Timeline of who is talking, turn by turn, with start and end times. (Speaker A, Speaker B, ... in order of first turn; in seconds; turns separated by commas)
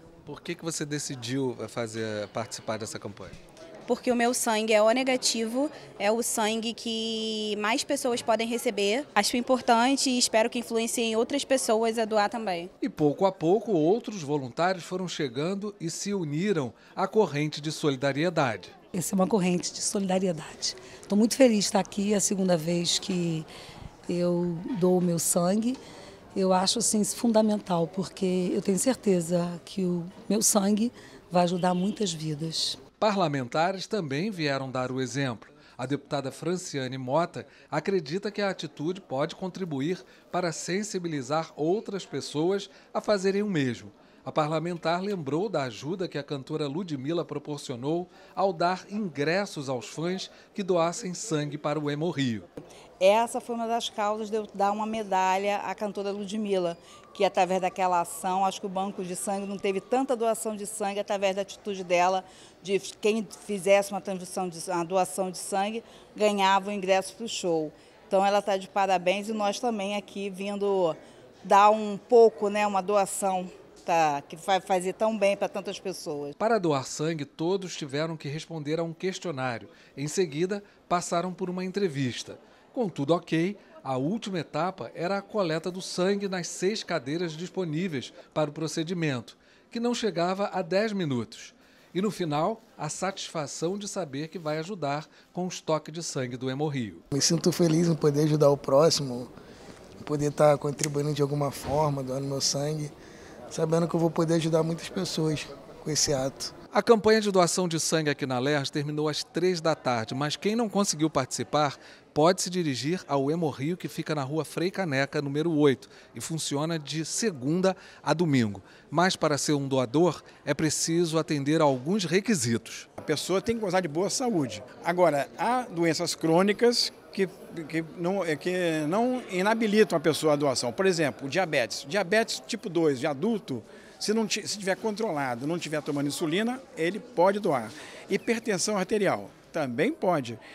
Speaker A: 0.3-3.4, Speaker B: 3.9-12.7, Speaker A: 12.8-18.7, Speaker C: 18.9-23.5, Speaker C: 24.1-25.8, Speaker C: 26.4-32.8, Speaker A: 33.0-52.5, Speaker D: 53.0-76.4, Speaker A: 76.4-97.0, Speaker E: 97.1-99.3, Speaker E: 100.0-102.9, Speaker E: 103.5-106.5, Speaker A: 106.7-122.9, Speaker F: 123.0-140.4